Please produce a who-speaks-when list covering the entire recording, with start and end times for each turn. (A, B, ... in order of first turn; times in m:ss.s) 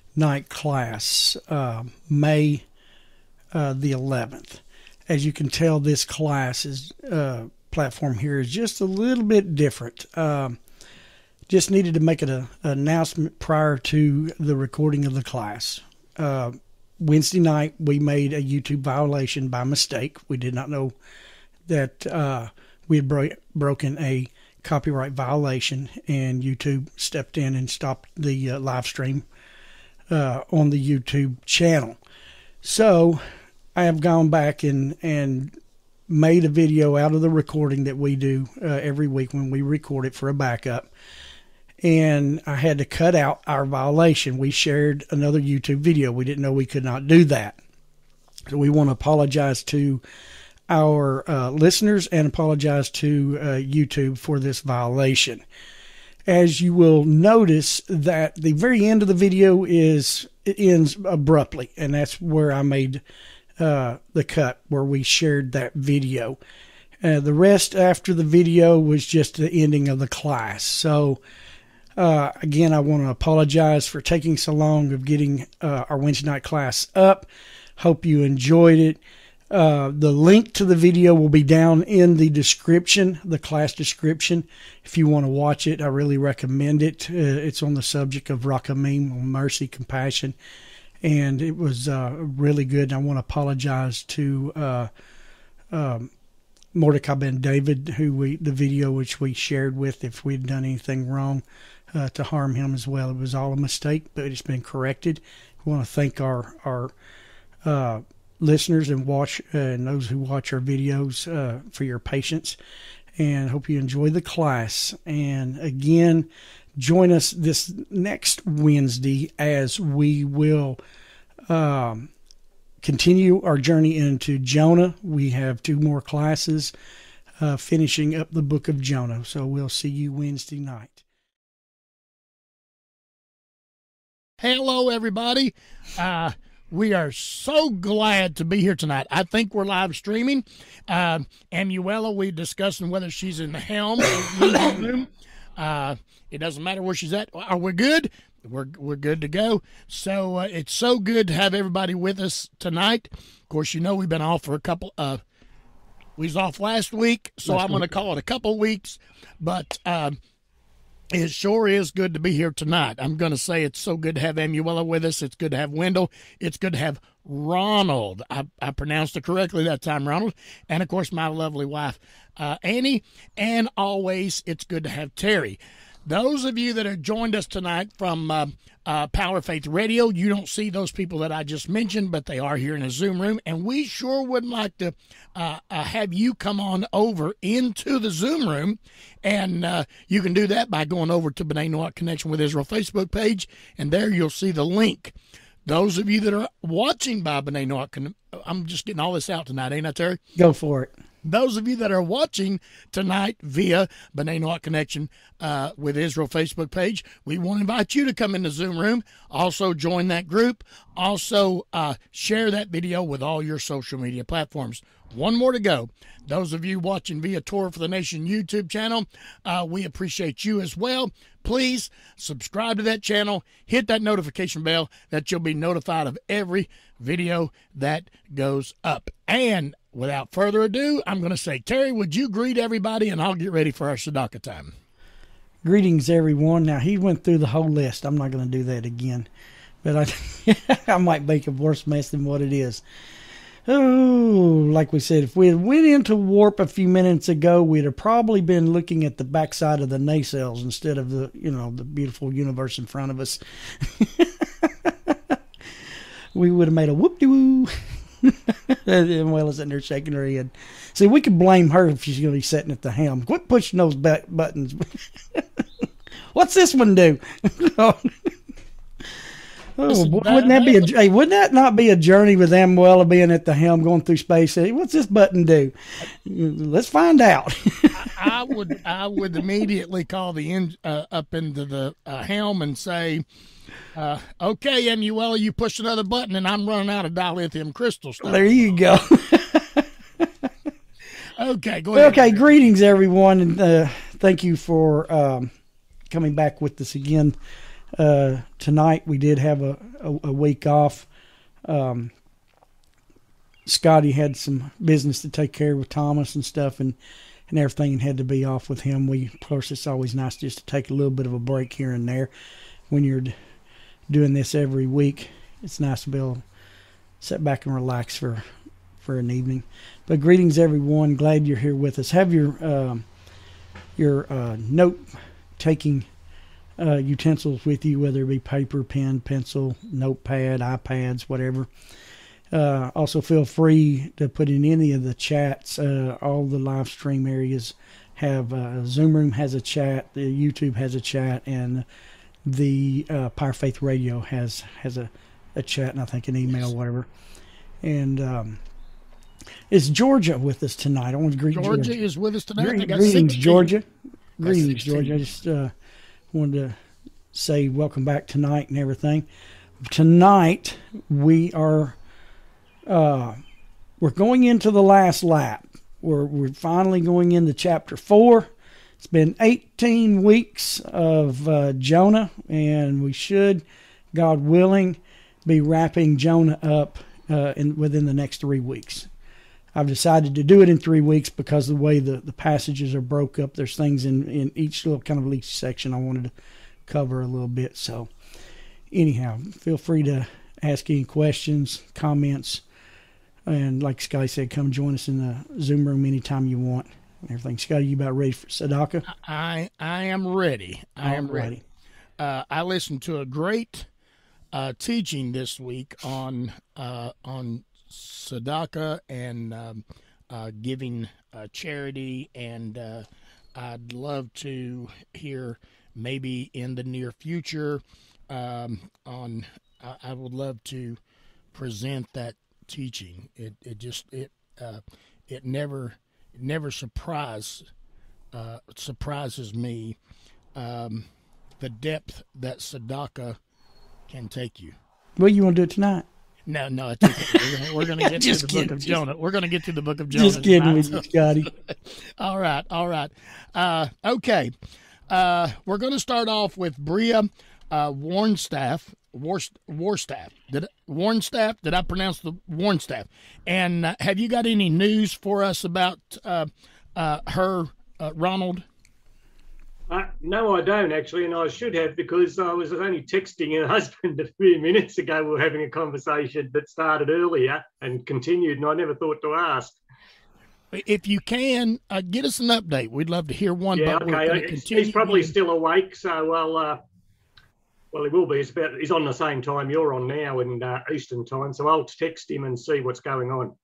0:00.2-0:02.6 A
0:03.5-0:10.6 A
0:11.5-0:20.9 A
0:21.7-0:29.2 A
0:30.1-0:32.0 A
0:32.6-0:33.2 A
0:33.7-0:35.5 A
0:36.1-0:40.9 A
0:41.8-0:47.6 A
0:48.5-0:50.0 A
0:50.7-0:55.4 A
0:56.3-1:03.0 A
1:03.6-1:06.4 A
1:07.0-1:11.2 A
1:12.0-1:19.0 A
1:19.5-1:30.3 A
1:31.0-1:34.9 A
1:35.7-1:36.1 A
1:36.7-1:46.9 A
1:47.6-1:52.6 A
1:53.2-2:00.8 A
2:01.5-2:02.1 A
2:02.8-2:06.7 A
2:07.4-2:11.0 A
2:14.4-2:35.2 B
2:36.2-2:40.2 B
2:37.5-2:37.8 A
2:41.1-3:20.2 B
3:20.4-3:20.9 A
3:21.2-3:54.7 B
3:55.6-3:59.3 A
3:59.8-4:02.8 A
4:03.7-4:15.3 A
4:16.3-4:25.4 A
4:26.3-4:28.1 A
4:29.8-4:38.1 A
4:29.9-4:30.9 B
4:37.9-4:43.2 B
4:43.9-4:48.7 B
4:48.2-4:50.2 A
4:51.4-4:52.6 B
4:51.9-4:55.5 A
4:56.1-4:57.3 A
4:58.0-5:01.1 A
5:01.6-5:02.1 A
5:03.6-5:07.0 A
5:07.5-5:12.3 A
5:12.9-5:13.3 A
5:14.1-5:16.4 A
5:17.2-5:18.4 A
5:19.0-5:23.0 A
5:24.0-5:25.0 A
5:25.6-5:26.1 A
5:26.8-5:31.7 A
5:32.5-5:41.8 A
5:42.4-5:47.1 A
5:47.8-5:48.6 A
5:49.7-5:52.0 A
5:51.5-5:53.7 B
5:52.6-5:53.8 A
5:54.4-5:55.7 A
5:54.4-5:55.2 B
5:56.3-5:56.7 A
5:57.3-5:59.2 A
5:59.8-6:02.0 A
6:02.9-6:03.4 A
6:04.0-6:19.1 A
6:19.7-6:26.3 A
6:26.9-6:28.1 A
6:28.9-6:32.6 A
6:33.5-6:39.1 A
6:39.1-6:41.5 B
6:41.0-6:41.6 A
6:42.2-6:43.9 B
6:44.5-7:01.0 B
7:01.5-7:07.7 B
7:08.3-7:10.0 B
7:10.5-7:11.0 B
7:11.6-7:13.4 B
7:14.1-7:14.7 B
7:15.2-7:16.0 A
7:16.5-7:24.5 B
7:17.0-7:19.0 A
7:20.1-7:21.5 A
7:25.1-7:38.6 B
7:39.9-7:49.8 C
7:50.7-7:55.3 B
7:53.7-7:56.8 C
7:57.9-8:03.5 C